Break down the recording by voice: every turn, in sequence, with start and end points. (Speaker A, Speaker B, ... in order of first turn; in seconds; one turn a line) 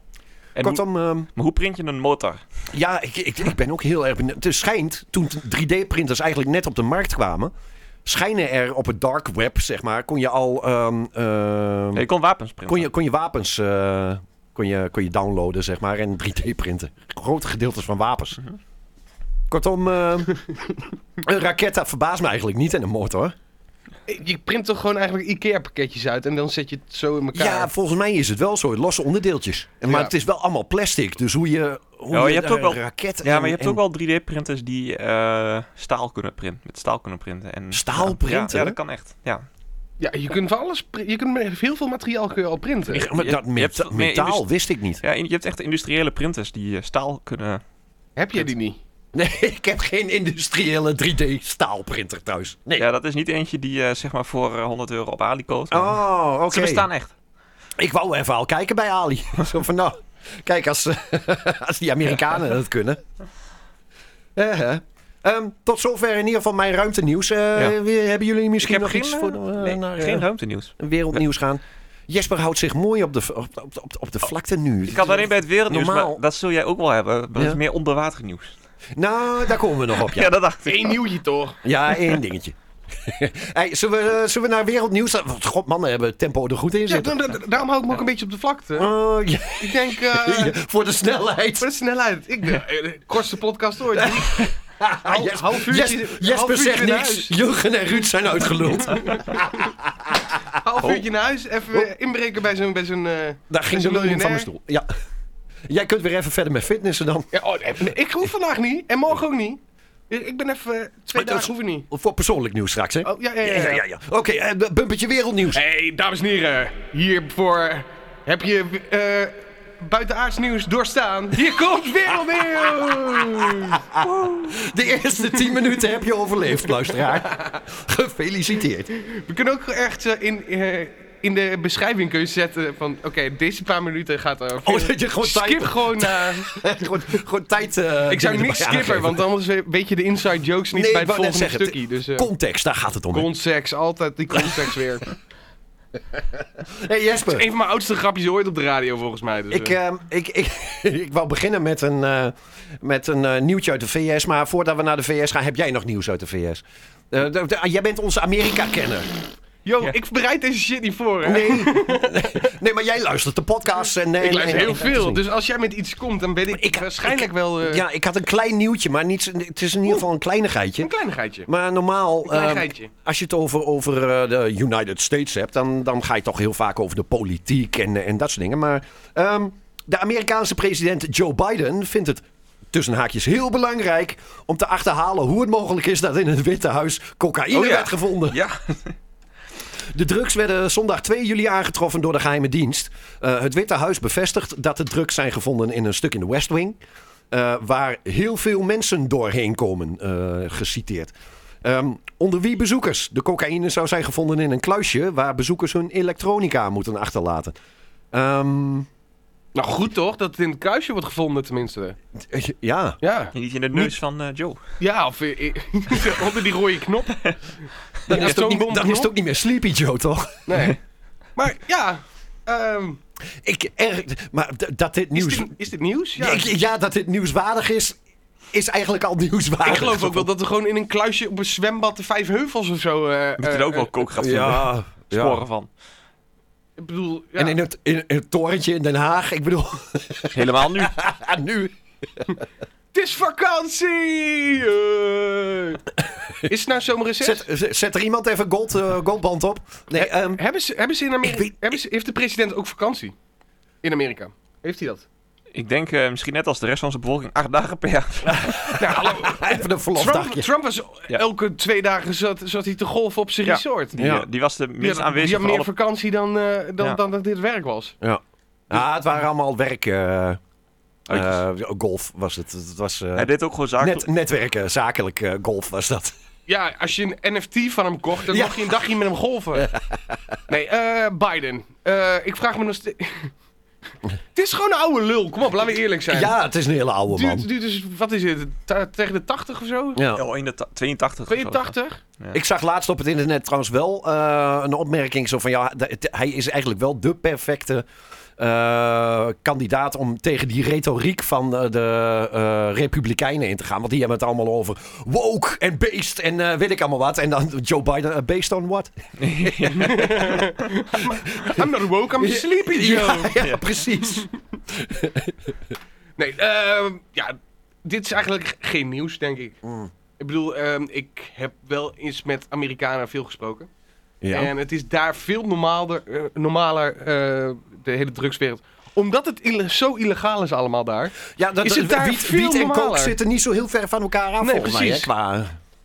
Speaker A: 0.6-0.8
Speaker B: 0.6-1.3
Speaker A: 1.4-2.4
Speaker B: 2.7-7.5
Speaker B: 8.1-12.1
Speaker A: 11.9-12.9
Speaker B: 12.7-18.4
Speaker B: 19.5-20.4
Speaker B: 21.2-23.3
Speaker C: 24.1-27.7
Speaker B: 27.3-33.8
Speaker C: 29.9-30.1
Speaker A: 32.1-39.5
Speaker B: 37.7-38.8
Speaker C: 40.0-43.1
Speaker B: 42.9-45.0
Speaker A: 43.0-44.5
Speaker A: 45.0-47.6
Speaker C: 48.2-48.8
Speaker B: 49.1-52.9
Speaker A: 52.8-56.0
Speaker B: 55.7-56.9
Speaker A: 56.5-57.1
Speaker B: 57.8-63.0
Speaker B: 64.4-70.3
Speaker A: 68.6-71.2
Speaker B: 70.8-76.2
Speaker A: 74.8-78.5
Speaker B: 77.3-77.6
Speaker B: 79.0-80.3
Speaker A: 79.9-81.0
Speaker C: 80.7-81.6
Speaker B: 81.6-87.2
Speaker C: 86.9-88.9
Speaker B: 88.8-91.7
Speaker C: 89.6-90.6
Speaker C: 91.6-97.4
Speaker B: 93.9-100.5
Speaker C: 98.9-99.7
Speaker C: 100.6-104.5
Speaker B: 103.5-104.9
Speaker B: 105.7-107.3
Speaker C: 107.3-111.9
Speaker B: 111.1-115.6
Speaker C: 113.0-113.8
Speaker C: 115.5-124.3
Speaker B: 122.6-128.9
Speaker C: 126.8-127.6
Speaker C: 128.9-136.8
Speaker B: 134.6-139.2
Speaker C: 138.1-142.3
Speaker B: 140.7-143.3
Speaker C: 143.1-145.1
Speaker B: 144.3-144.7
Speaker B: 146.2-147.5
Speaker C: 147.3-149.8
Speaker B: 149.5-159.1
Speaker C: 159.7-162.5
Speaker B: 161.2-165.2
Speaker C: 164.2-167.8
Speaker B: 166.5-170.9
Speaker C: 170.8-171.5
Speaker B: 171.5-188.4
Speaker C: 172.2-172.9
Speaker A: 187.5-188.9
Speaker B: 189.8-196.8
Speaker B: 197.3-201.1
Speaker B: 201.6-207.6
Speaker B: 208.1-208.9
Speaker C: 209.6-212.0
Speaker B: 212.2-213.0
Speaker C: 213.0-213.3
Speaker A: 213.3-214.6
Speaker C: 214.8-217.2
Speaker C: 218.1-219.1
Speaker B: 218.1-220.7
Speaker C: 220.5-220.8
Speaker C: 221.4-223.0
Speaker B: 223.3-225.5
Speaker C: 225.1-226.5
Speaker B: 226.2-228.0
Speaker B: 228.5-230.3
Speaker C: 229.6-233.9
Speaker A: 233.4-235.7
Speaker B: 234.2-235.4
Speaker C: 236.8-237.6
Speaker B: 237.4-242.4
Speaker A: 240.3-240.9
Speaker C: 242.9-245.8
Speaker C: 246.4-247.4
Speaker B: 247.2-250.4
Speaker C: 249.9-253.2
Speaker C: 253.8-255.1
Speaker A: 255.5-258.8
Speaker B: 258.3-260.5
Speaker C: 258.8-264.0
Speaker A: 263.4-265.7
Speaker B: 264.0-264.3
Speaker C: 264.8-267.9
Speaker B: 268.0-270.4
Speaker B: 271.1-276.1
Speaker A: 271.1-271.4
Speaker A: 273.2-274.1
Speaker C: 276.5-279.7
Speaker B: 278.3-278.8
Speaker B: 279.6-280.4
Speaker C: 280.5-283.3
Speaker C: 284.4-286.4
Speaker B: 286.1-287.5
Speaker C: 287.1-290.0
Speaker B: 290.0-290.2
Speaker A: 290.1-292.4
Speaker C: 291.3-292.0
Speaker B: 292.3-297.9
Speaker B: 298.4-310.0
Speaker A: 309.2-310.5
Speaker C: 309.7-313.3
Speaker B: 311.3-315.6
Speaker A: 313.4-313.7
Speaker C: 316.2-319.6
Speaker B: 319.6-319.9
Speaker C: 320.2-323.7
Speaker B: 324.2-324.5
Speaker C: 324.3-333.2
Speaker B: 331.2-335.6
Speaker C: 334.4-335.1